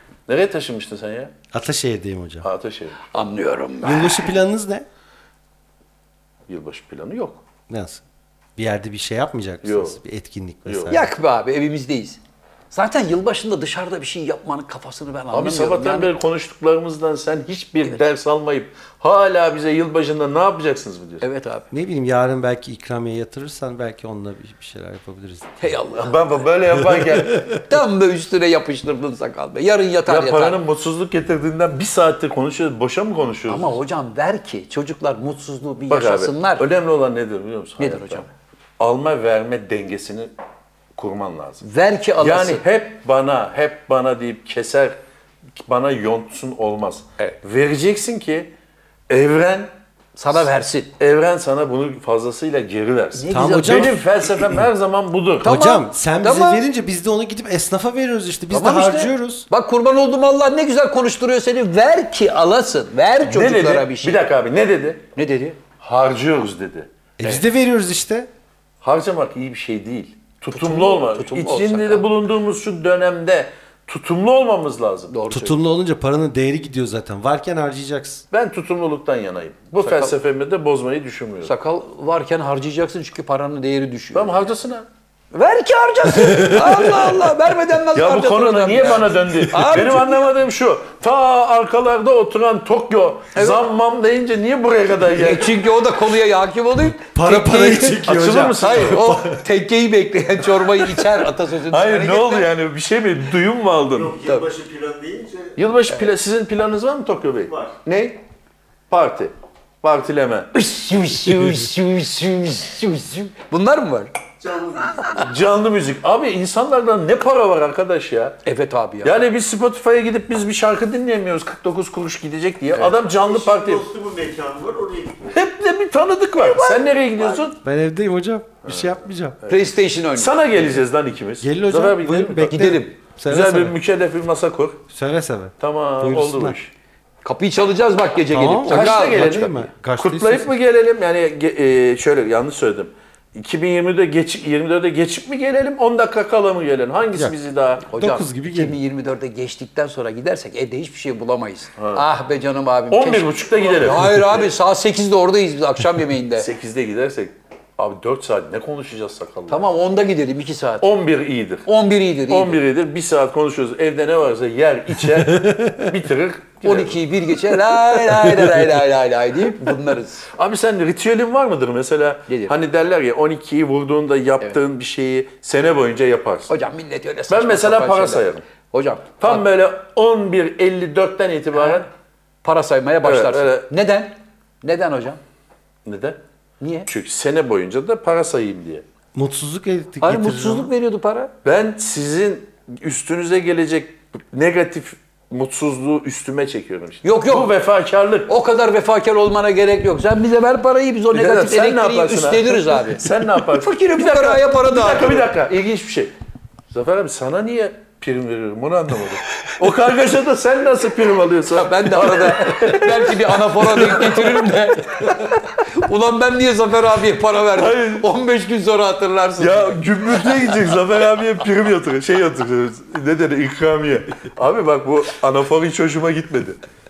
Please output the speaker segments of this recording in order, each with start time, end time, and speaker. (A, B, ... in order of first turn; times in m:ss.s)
0:00.3-0:01.3 A
0:01.5-0:02.5 B
0:02.4-0:03.1 A
0:03.1-0:04.3 C
0:03.8-0:04.8 B
0:06.5-0:07.4 A
0:07.7-0:08.0 B
0:08.6-0:11.1 B
0:09.6-0:10.0 A
0:10.6-0:11.0 A
0:10.9-0:12.2 C
0:12.7-0:16.1 C
0:15.3-0:21.2 A
0:21.2-0:21.7 C
0:21.7-0:25.6 B
0:25.6-0:26.2 C
0:26.0-0:27.5 A
0:27.6-0:30.6 C
0:30.0-0:33.8 A
0:33.5-0:36.6 C
0:35.9-0:38.2 A
0:37.8-0:38.3 C
0:38.8-0:40.3 A
0:41.0-0:41.6 A
0:41.6-0:42.6 C
0:42.2-0:45.0 A
0:45.6-0:48.5 A
0:49.1-0:49.7 A
0:50.2-0:50.9 C
0:51.0-0:55.8 A
0:53.1-0:54.0 C
0:53.3-0:54.0 B
0:55.4-0:59.5 B
0:55.5-0:56.6 C
0:58.5-1:04.2 C
1:03.2-1:05.0 A
1:05.1-1:05.6 C
1:05.8-1:06.9 A
1:07.2-1:08.3 B
1:08.8-1:15.1 A
1:10.5-1:12.1 C
1:15.1-1:15.6 C
1:15.3-1:18.2 B
1:18.3-1:21.5 A
1:19.8-1:20.1 C
1:21.4-1:24.5 C
1:24.1-1:24.9 A
1:25.3-1:30.2 C
1:26.2-1:27.1 B
1:27.9-1:35.6 A
1:33.3-1:33.6 C
1:35.1-1:42.5 C
1:36.9-1:39.4 B
1:38.0-1:39.1 A
1:41.7-1:44.2 A
1:43.9-1:45.6 D
1:45.6-1:48.2 A
1:47.4-1:47.8 D
1:48.9-1:50.5 A
1:50.5-1:54.1 C
1:54.4-1:55.3 D
1:55.1-1:58.4 A
1:58.4-1:59.2 C
1:59.0-2:03.8 A
2:02.8-2:05.4 D
2:05.3-2:07.6 A
2:06.4-2:06.8 C
2:07.6-2:09.4 B
2:08.6-2:12.7 A
2:09.5-2:10.4 C
2:11.4-2:13.8 B
2:12.5-2:13.0 C
2:13.3-2:14.8 A
2:14.9-2:16.6 B
2:15.6-2:16.7 A
2:17.2-2:19.5 C
2:18.3-2:20.5 B
2:18.7-2:28.0 A
2:27.9-2:28.8 B
2:27.9-2:36.5 C
2:31.8-2:32.0 A
2:32.9-2:34.5 A
2:36.4-2:39.7 A
2:39.5-2:40.9 C
2:40.8-2:41.7 A
2:41.6-2:42.6 C
2:42.3-2:48.4 A
2:45.4-2:45.8 B
2:46.6-2:50.3 C
2:50.3-2:56.6 A
2:52.3-2:52.5 C
2:56.5-2:59.4 C
2:57.3-2:58.4 A
2:59.2-3:01.9 A
3:01.6-3:01.8 C
3:02.4-3:05.2 C
3:03.0-3:03.7 A
3:05.8-3:06.2 A
3:06.6-3:06.9 C
3:06.9-3:08.8 A
3:09.1-3:10.7 B
3:10.0-3:11.3 C
3:11.4-3:18.3 A
3:17.0-3:17.5 C
3:18.3-3:25.2 C
3:21.1-3:26.1 A
3:26.7-3:34.5 A
3:31.4-3:40.6 C
3:37.5-3:38.1 A
3:39.4-3:46.6 A